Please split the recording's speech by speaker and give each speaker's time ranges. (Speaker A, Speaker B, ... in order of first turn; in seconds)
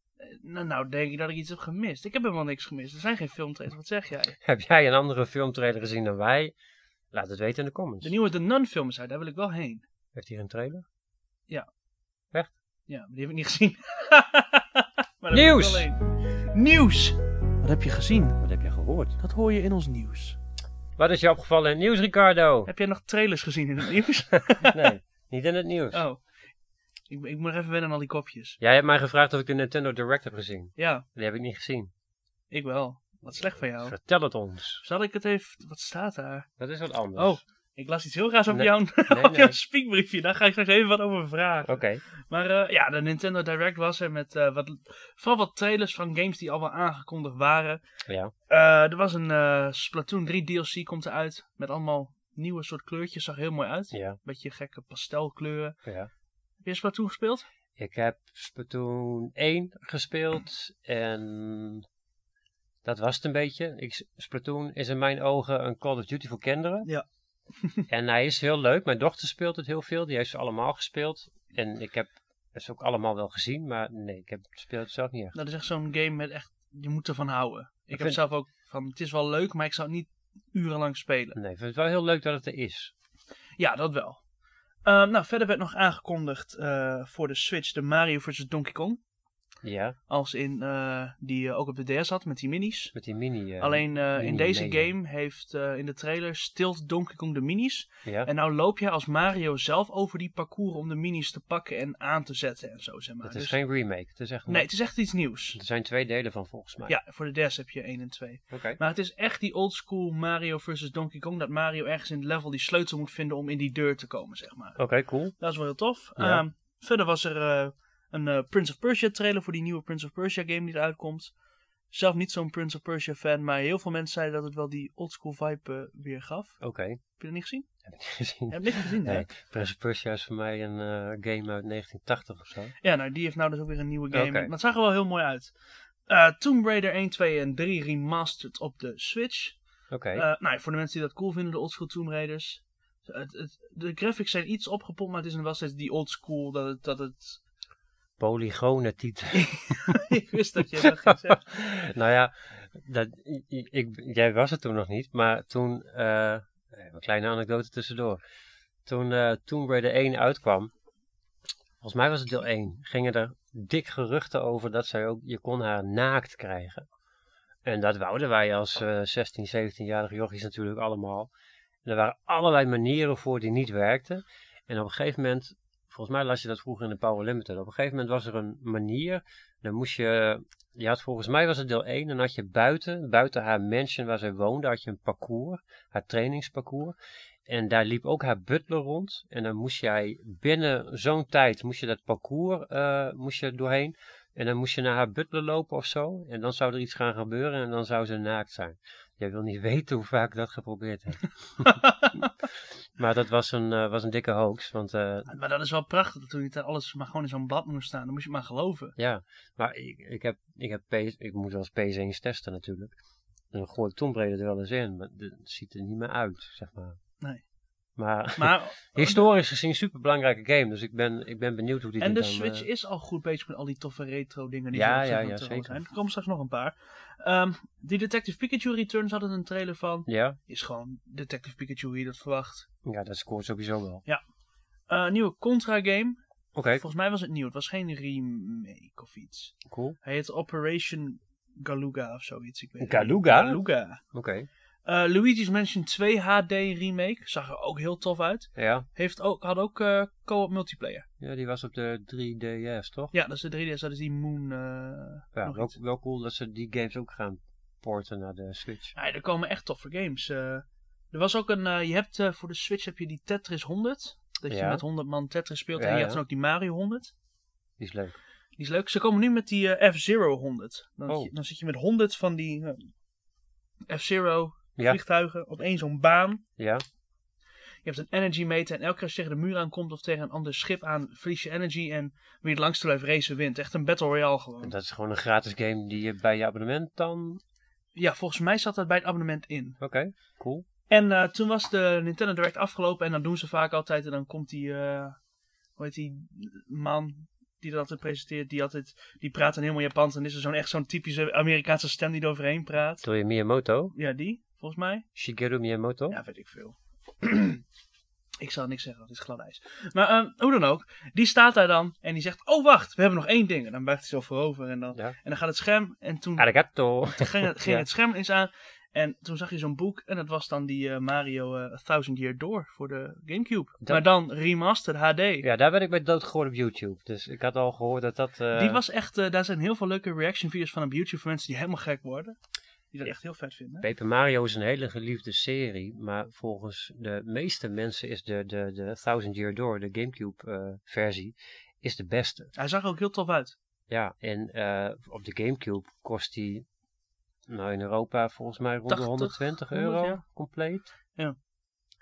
Speaker A: 0.2-4.4, 8.0-9.8, 12.9-18.4, 19.2-20.4, 22.6-24.8, 25.9-26.3, 27.1-28.6, 30.8-31.0, 32.5-33.9, 34.8-36.5, 37.1-47.8, 48.5-55.8, 56.6-57.5, 67.6-67.8, 75.3-81.4, 83.6-84.2, 84.8-89.0, 90.1-92.9, 93.6-103.6, 104.5-105.6, 106.9-114.8, 115.3-121.3, 121.9-127.7, 128.5-129.3, 132.8-135.5, 136.1-139.6, 140.1-147.4, 149.3-151.4, 201.7-202.1, 205.3-208.9, 218.4-219.2, 222.0-232.7, 234.9-236.2, 236.8-244.0, 244.8-251.1, 253.1-255.7, 258.9-267.1, 268.6-272.9, 273.9-276.4, 277.8-284.7, 287.9-289.8, 290.9-295.2, 295.8-303.0, 303.9-305.1, 306.1-307.6, 308.4-316.5, 317.1-325.4, 328.5-332.4, 332.9-333.9, 342.5-343.6, 348.9-350.2
Speaker B: 4.4-6.5, 7.1-8.1, 10.1-10.8, 15.3-15.9, 18.4-19.2, 21.0-22.7, 24.6-26.0, 28.6-31.9, 33.8-34.8, 36.6-37.4, 38.5-39.6, 41.6-42.0, 48.1-48.3, 53.9-54.2, 55.8-56.1, 57.8-61.9, 62.8-66.9, 67.9-75.3, 77.9-78.2, 81.3-82.9, 89.6-90.0, 92.9-94.9, 98.0-98.3, 103.2-104.7, 105.5-106.9, 108.5-108.8, 114.8-115.3, 116.2-116.4, 126.6-127.0, 127.8-132.7, 134.1-134.5, 139.9-140.2, 148.2-149.9, 150.8-158.2, 158.8-160.7, 161.8-166.8, 167.6-171.3, 171.8-186.9, 187.5-201.7, 203.0-205.3, 208.9-212.9, 213.5-217.0, 217.9-222.7, 224.7-225.8, 230.1-230.4, 232.8-234.0, 236.5-236.8, 239.7-240.0, 242.8-243.6, 244.1-244.5, 248.6-248.8, 251.2-253.1, 255.3-258.9, 264.5-264.8, 265.8-266.2, 267.8-268.1, 271.1-271.3, 276.6-276.8, 284.6-287.4, 289.8-290.6, 303.0-303.9, 305.1-306.2, 316.4-317.9, 325.4-328.8, 333.8-342.5, 343.9-346.6, 347.5-350.9